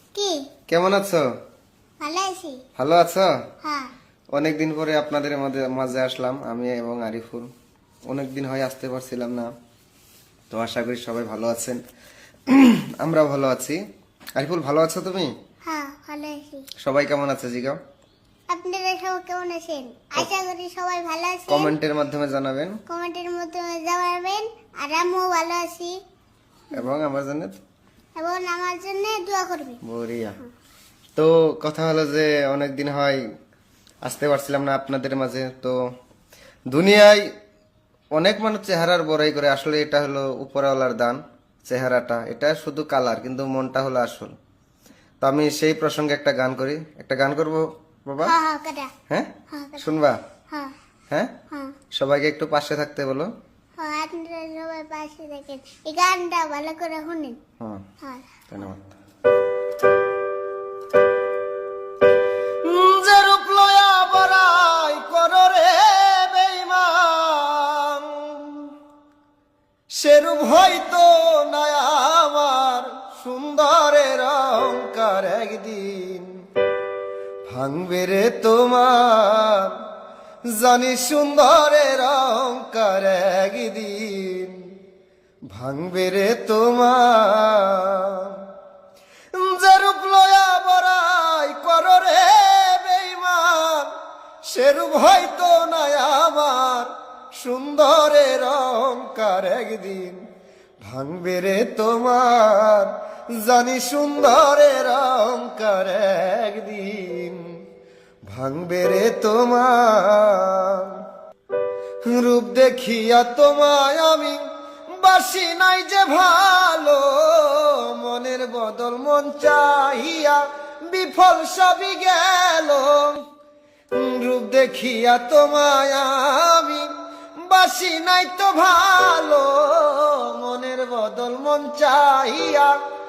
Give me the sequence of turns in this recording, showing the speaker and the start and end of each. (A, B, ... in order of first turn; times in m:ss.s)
0:00.1-0:00.4 A
0:00.7-0:01.2 B
0:02.0-0:02.6 A
0:02.8-0:03.3 B
0:03.6-0:03.9 A
0:04.3-0:07.5 B
0:08.1-0:09.5 B
0:10.5-0:11.8 B
0:12.5-0:13.8 B
0:14.4-0:15.3 B
0:15.6-0:16.7 A
0:16.8-0:17.8 B
0:18.5-0:21.7 A
0:21.5-0:22.8 B
0:22.9-0:25.9 A
0:26.7-0:27.6 B
0:28.2-0:29.8 A
0:29.8-0:30.4 B
0:31.1-0:33.2 B
0:34.0-0:35.8 B
0:36.7-0:37.2 B
0:38.1-0:44.3 B
0:45.2-0:48.3 B
0:48.2-0:48.9 A
0:49.1-0:50.2 B
0:49.5-0:49.9 A
0:52.0-0:53.3 B
0:53.8-0:57.4 A
0:58.5-0:58.9 B
1:02.6-1:08.7 B
1:09.9-1:16.3 B
1:17.4-1:19.8 B
1:20.5-1:24.6 B
1:25.5-1:28.4 B
1:29.3-1:33.9 B
1:34.5-1:40.2 B
1:40.8-1:47.4 B
1:48.3-1:51.0 B
1:52.1-1:54.4 B
1:55.0-2:03.2 B
2:03.9-2:06.9 B
2:07.4-2:12.7 B